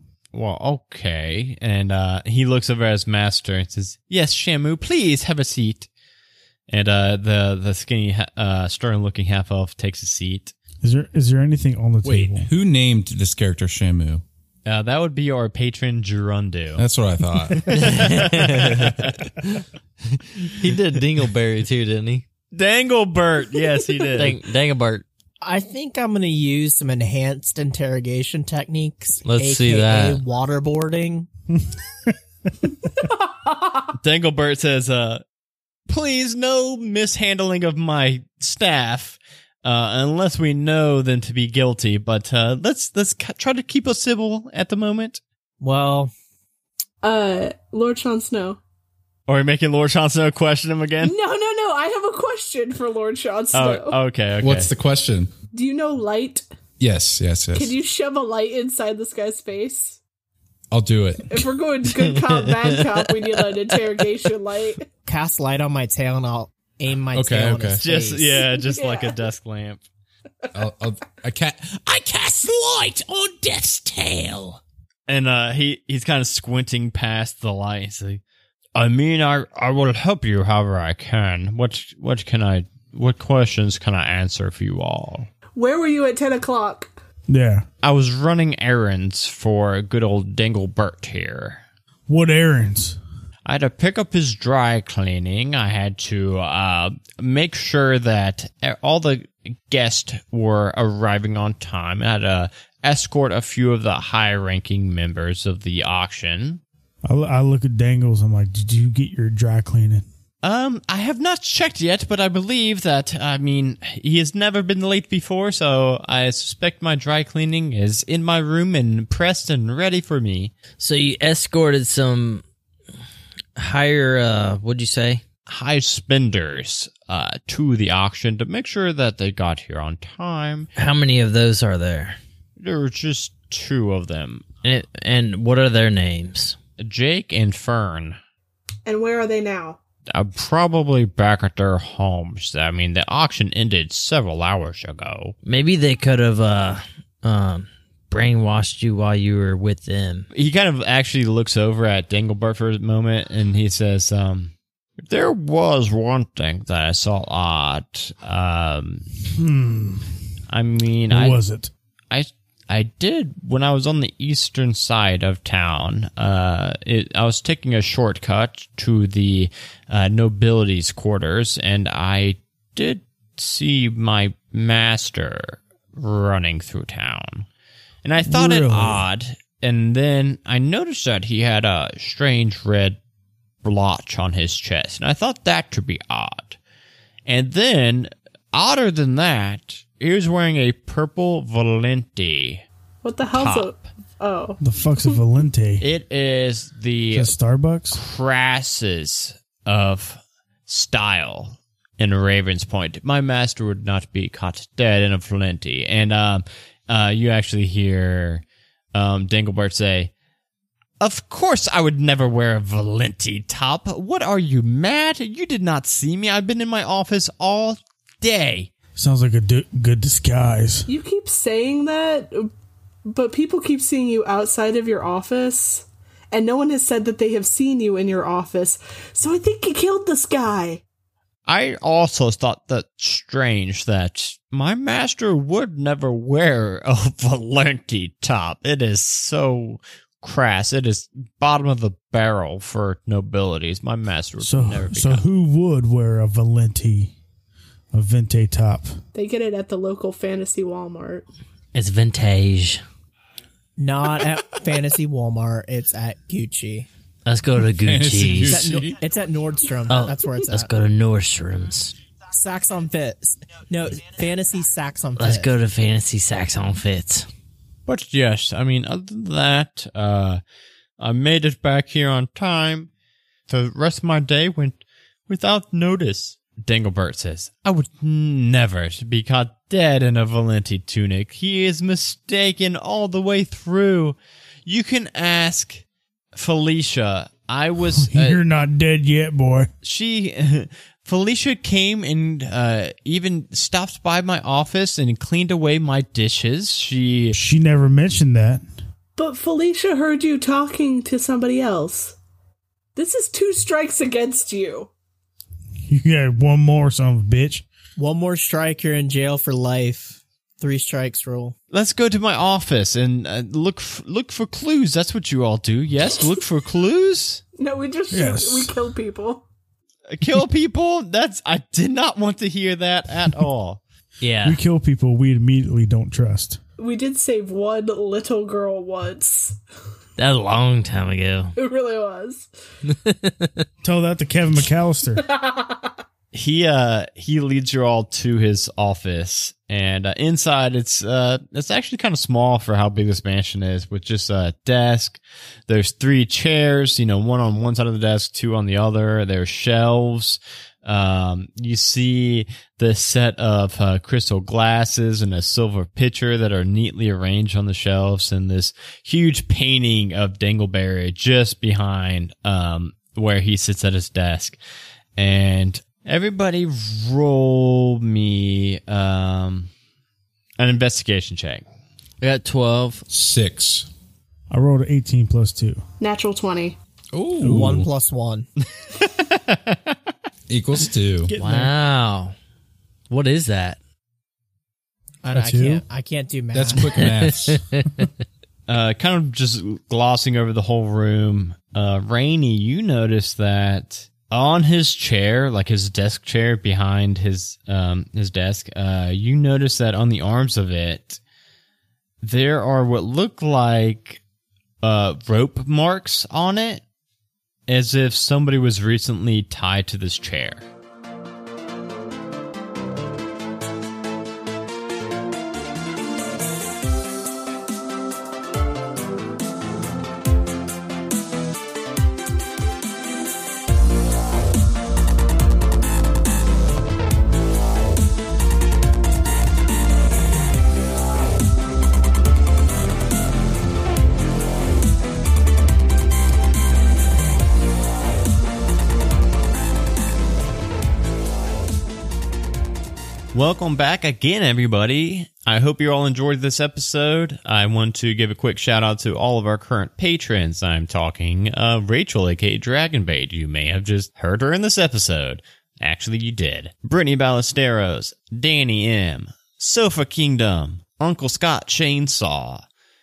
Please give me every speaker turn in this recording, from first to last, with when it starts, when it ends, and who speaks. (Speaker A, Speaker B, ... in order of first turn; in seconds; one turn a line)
Speaker A: 0.3-5.9
Speaker A: 6.7-10.5
Speaker B: 10.8-12.5
Speaker C: 12.0-14.2
Speaker A: 14.7-16.8
Speaker C: 16.8-18.0
Speaker A: 17.5-19.2
Speaker D: 17.7-18.9
Speaker D: 20.5-22.2
Speaker A: 22.5-24.4
Speaker D: 24.1-25.1
Speaker E: 25.4-31.3
Speaker D: 29.2-30.2
Speaker A: 34.0-35.2
Speaker A: 35.9-45.2
Speaker E: 45.6-46.1
Speaker F: 47.0-48.6
Speaker A: 49.3-51.1
Speaker F: 51.0-54.0
Speaker A: 53.5-54.7
Speaker C: 54.4-55.3
Speaker F: 55.5-56.5
Speaker C: 56.8-57.8
Speaker F: 57.5-60.0
Speaker C: 60.7-61.5
Speaker F: 61.3-64.9
Speaker E: 65.1-68.4
Speaker C: 67.1-67.8
Speaker A: 67.8-69.8
Speaker F: 68.4-69.2
Speaker C: 70.5-74.6
Speaker A: 75.1-78.2
Speaker A: 78.8-85.3
Speaker F: 85.5-86.9
Speaker B: 87.3-87.7
Speaker A: 87.8-91.6
Speaker B: 92.1-93.0
Speaker A: 93.5-106.6
Speaker B: 107.0-110.0
Speaker A: 110.4-120.5
Speaker D: 120.8-122.4
Speaker D: 123.6-125.2
Speaker A: 125.5-130.7
Speaker D: 130.8-132.2
Speaker A: 132.6-134.5
Speaker D: 134.6-136.6
Speaker A: 136.8-138.2
Speaker F: 138.9-139.8
Speaker A: 140.1-145.3
Speaker D: 145.4-150.3
Speaker A: 150.3-154.5
Speaker A: 155.1-159.1
Speaker B: 159.4-160.1
Speaker A: 160.5-161.4
Speaker B: 161.1-161.7
Speaker A: 162.1-177.5
Speaker A: 178.0-183.0
Speaker B: 178.2-179.0
Speaker A: 183.6-186.6
Speaker A: 187.3-192.7
Speaker F: 193.0-195.1
Speaker A: 193.3-193.8
Speaker B: 194.6-195.8
Speaker A: 195.8-197.3
Speaker B: 197.1-198.0
Speaker A: 197.9-208.4
Speaker A: 208.9-210.1
Speaker A: 211.0-218.7
Speaker B: 219.0-220.9
Speaker F: 220.9-222.5
Speaker F: 223.1-230.8
Speaker A: 231.5-245.3
Speaker B: 244.4-247.1
Speaker B: 247.9-248.9
Speaker F: 249.2-251.2
Speaker D: 251.8-252.8
Speaker E: 253.8-256.9
Speaker D: 257.3-258.7
Speaker C: 257.8-259.0
Speaker E: 258.5-260.7
Speaker D: 259.9-261.9
Speaker E: 262.3-265.5
Speaker D: 265.2-267.3
Speaker A: 267.9-270.4
Speaker A: 271.0-272.9
Speaker A: 273.5-285.8
Speaker A: 286.4-288.4
Speaker B: 288.0-289.7
Speaker A: 289.8-297.4
Speaker B: 297.3-298.6
Speaker F: 299.2-302.2
Speaker F: 303.0-304.9
Speaker B: 305.9-307.6
Speaker E: 308.0-311.6
Speaker A: 311.7-317.4
Speaker F: 317.6-319.4
Speaker B: 318.1-318.7
Speaker A: 320.1-323.8
Speaker D: 324.2-324.6
Speaker B: 324.4-326.6
Speaker F: 326.8-329.6
Speaker D: 330.2-331.5
Speaker F: 331.6-332.5
Speaker D: 332.9-333.6
Speaker B: 333.8-335.2
Speaker F: 335.3-335.9
Speaker A: 336.3-364.6
Speaker A: 365.2-369.7
Speaker A: 370.6-371.6
Speaker D: 372.2-373.1
Speaker C: 373.1-373.9
Speaker B: 374.5-375.8
Speaker F: 376.0-376.8
Speaker C: 377.1-377.9
Speaker B: 377.4-377.7
Speaker E: 377.4-378.5
Speaker A: 378.8-379.9
Speaker C: 380.5-381.4
Speaker D: 381.3-382.3
Speaker B: 381.4-381.7
Speaker D: 383.1-383.8
Speaker E: 385.2-387.0
Speaker B: 385.3-385.8
Speaker C: 386.5-387.6
Speaker D: 387.2-388.1
Speaker A: 388.7-401.2
Speaker A: 402.2-404.2
Speaker A: 404.8-406.8
Speaker A: 407.7-410.7
Speaker A: 443.3-462.6